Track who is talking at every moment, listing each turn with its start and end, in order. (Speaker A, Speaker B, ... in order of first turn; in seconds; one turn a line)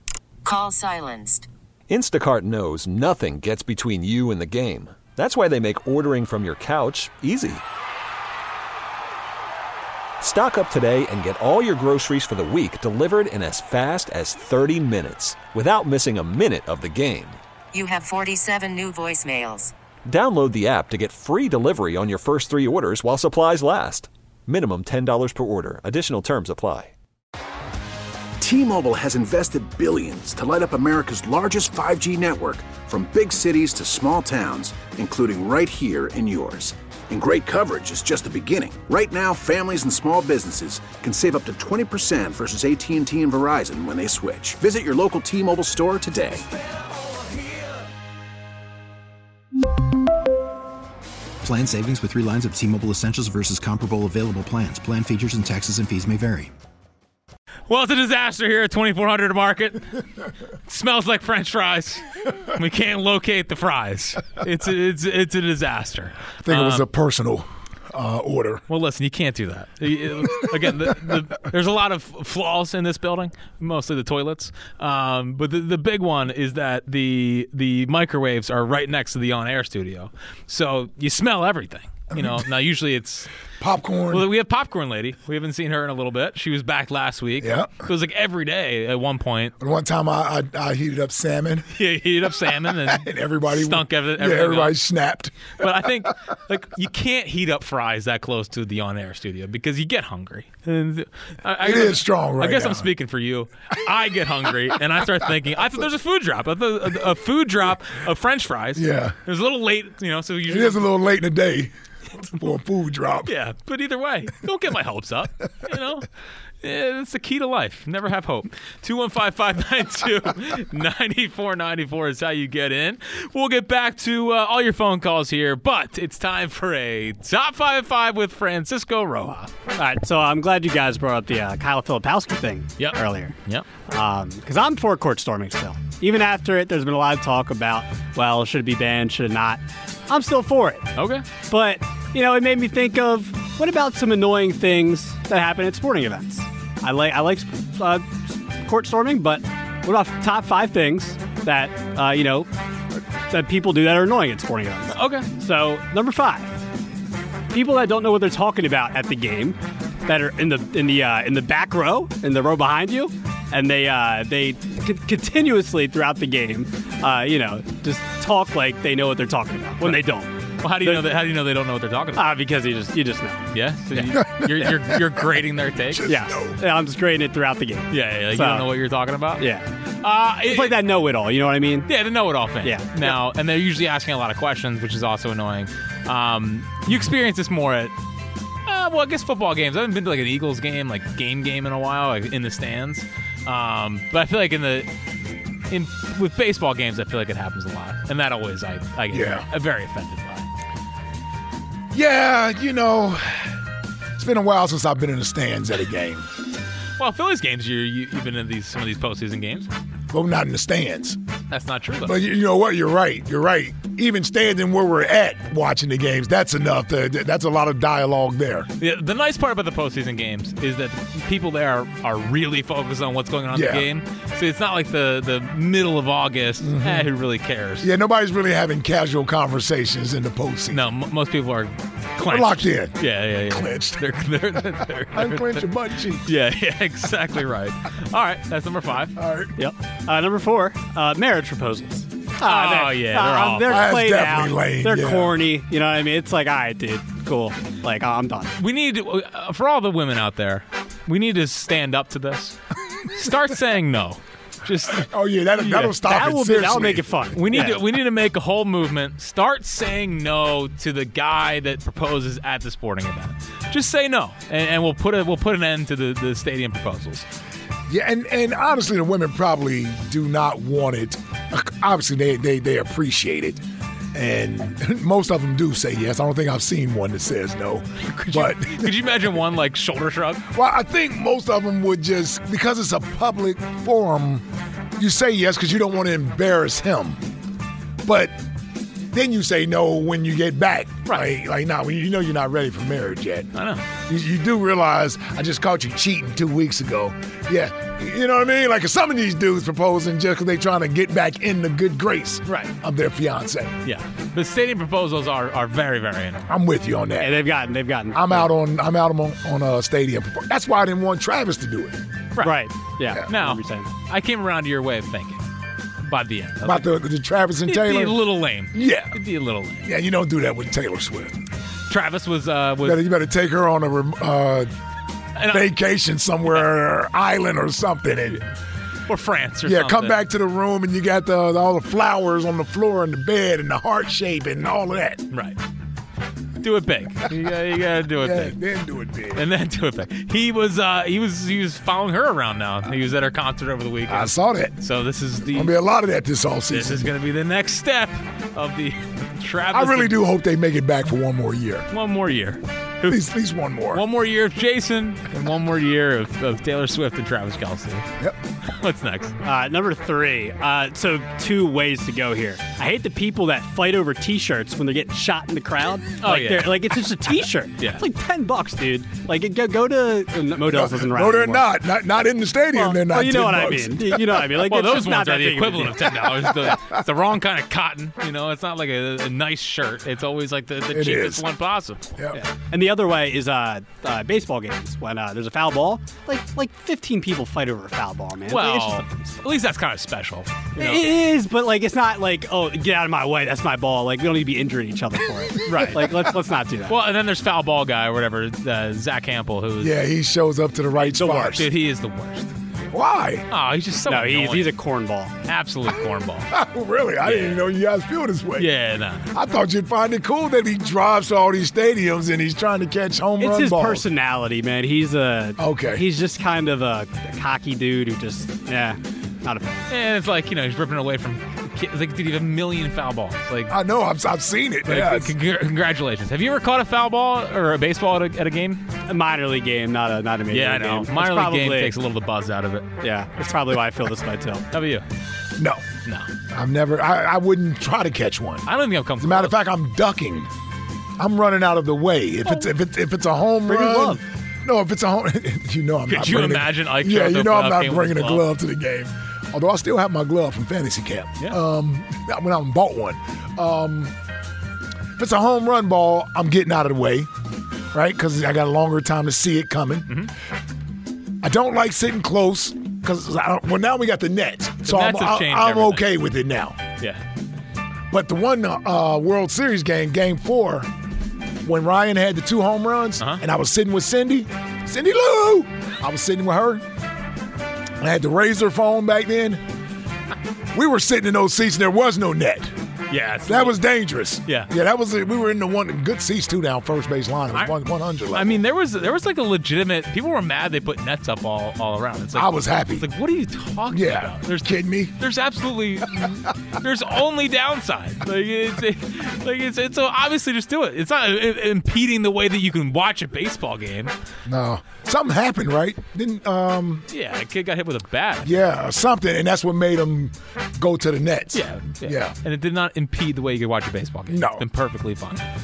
Speaker A: 0.4-1.5
Speaker B: 1.9-7.6
Speaker B: 10.2-17.4
Speaker A: 17.7-19.7
Speaker B: 20.1-26.9
Speaker C: 28.4-46.5
Speaker D: 51.4-56.5
Speaker E: 57.7-59.9
Speaker E: 60.7-66.8
Speaker F: 66.4-68.6
Speaker E: 68.7-83.3
Speaker F: 83.6-84.3
Speaker E: 84.1-89.5
Speaker F: 87.4-87.8
Speaker F: 89.6-91.7
Speaker E: 91.7-94.8
Speaker F: 92.8-95.5
Speaker E: 95.6-110.9
Speaker F: 101.6-102.9
Speaker F: 108.8-109.2
Speaker F: 110.5-111.7
Speaker F: 112.3-113.3
Speaker E: 113.2-116.1
Speaker E: 116.6-129.5
Speaker G: 129.8-133.4
Speaker E: 132.8-133.7
Speaker G: 133.9-140.9
Speaker E: 140.9-141.3
Speaker G: 141.5-152.5
Speaker G: 153.3-156.6
Speaker E: 154.9-155.3
Speaker G: 157.5-171.1
Speaker E: 170.6-172.3
Speaker G: 172.2-174.3
Speaker E: 173.5-176.1
Speaker F: 174.2-176.6
Speaker G: 176.1-178.7
Speaker E: 177.9-179.5
Speaker G: 179.4-179.7
Speaker E: 180.0-180.8
Speaker G: 180.4-181.9
Speaker E: 181.9-187.9
Speaker G: 182.6-183.2
Speaker E: 188.7-194.9
Speaker E: 195.7-200.5
Speaker F: 199.1-199.5
Speaker F: 201.9-203.6
Speaker F: 204.2-206.3
Speaker E: 207.0-209.7
Speaker F: 210.1-211.2
Speaker E: 211.5-212.2
Speaker F: 212.0-218.7
Speaker E: 218.8-227.9
Speaker F: 223.5-223.9
Speaker F: 226.6-227.1
Speaker F: 227.8-230.8
Speaker E: 230.7-239.2
Speaker F: 232.2-234.1
Speaker F: 235.1-236.4
Speaker F: 239.2-239.6
Speaker G: 239.6-248.6
Speaker E: 242.4-243.9
Speaker F: 243.7-245.4
Speaker E: 248.6-255.1
Speaker F: 254.9-257.2
Speaker G: 255.7-257.8
Speaker E: 257.3-267.3
Speaker F: 267.9-273.6
Speaker F: 274.1-279.0
Speaker E: 278.0-280.5
Speaker F: 280.5-284.4
Speaker F: 285.0-287.3
Speaker F: 288.0-288.3
Speaker F: 289.1-303.8
Speaker E: 293.5-293.9
Speaker E: 302.5-302.7
Speaker E: 303.8-306.5
Speaker F: 306.5-307.4
Speaker G: 307.2-308.5
Speaker F: 308.1-312.0
Speaker G: 312.4-313.9
Speaker E: 313.2-315.4
Speaker E: 316.0-316.9
Speaker F: 316.6-319.2
Speaker E: 317.6-319.9
Speaker F: 319.9-321.4
Speaker E: 321.9-323.1
Speaker F: 322.8-324.7
Speaker E: 325.4-325.7
Speaker F: 325.5-328.4
Speaker E: 329.1-330.2
Speaker F: 329.6-335.2
Speaker E: 335.3-335.6
Speaker E: 336.6-338.6
Speaker F: 338.2-339.4
Speaker E: 339.4-345.7
Speaker F: 344.1-344.8
Speaker F: 345.5-347.1
Speaker E: 346.7-350.2
Speaker F: 349.7-351.9
Speaker E: 351.9-353.2
Speaker F: 353.0-354.0
Speaker E: 353.9-358.1
Speaker E: 358.7-359.4
Speaker G: 359.4-371.7
Speaker E: 366.2-366.9
Speaker E: 367.8-368.1
Speaker F: 370.6-374.6
Speaker G: 372.7-376.3
Speaker E: 374.6-382.1
Speaker F: 376.6-377.0
Speaker F: 380.9-381.5
Speaker G: 382.3-389.4
Speaker E: 388.5-391.1
Speaker G: 390.8-397.0
Speaker E: 395.7-396.0
Speaker E: 396.9-399.9
Speaker F: 399.8-401.7
Speaker E: 401.2-402.5
Speaker F: 402.9-403.5
Speaker E: 403.5-404.7
Speaker G: 404.1-405.4
Speaker E: 405.4-406.5
Speaker F: 406.5-408.7
Speaker E: 407.3-407.6
Speaker E: 408.6-409.3
Speaker F: 409.3-414.0
Speaker G: 413.4-419.9
Speaker F: 415.6-416.1
Speaker E: 419.9-423.8
Speaker F: 423.7-425.3
Speaker E: 424.9-428.8
Speaker G: 429.1-431.9
Speaker E: 430.5-432.9
Speaker G: 433.0-434.7
Speaker E: 434.7-435.1
Speaker F: 435.6-435.8
Speaker F: 436.5-440.5
Speaker E: 438.7-439.6
Speaker F: 441.2-454.1
Speaker G: 443.7-444.2
Speaker E: 446.1-448.4
Speaker F: 455.2-457.3
Speaker F: 457.9-460.2
Speaker F: 461.4-466.8
Speaker E: 464.8-466.0
Speaker F: 468.1-470.9
Speaker F: 471.6-476.8
Speaker F: 478.0-479.6
Speaker F: 480.7-482.7
Speaker E: 483.1-483.8
Speaker F: 483.5-488.6
Speaker E: 488.3-504.1
Speaker F: 492.3-493.1
Speaker F: 493.9-495.1
Speaker F: 504.5-507.1
Speaker E: 507.1-508.7
Speaker F: 508.4-512.4
Speaker E: 511.5-515.5
Speaker F: 514.3-514.6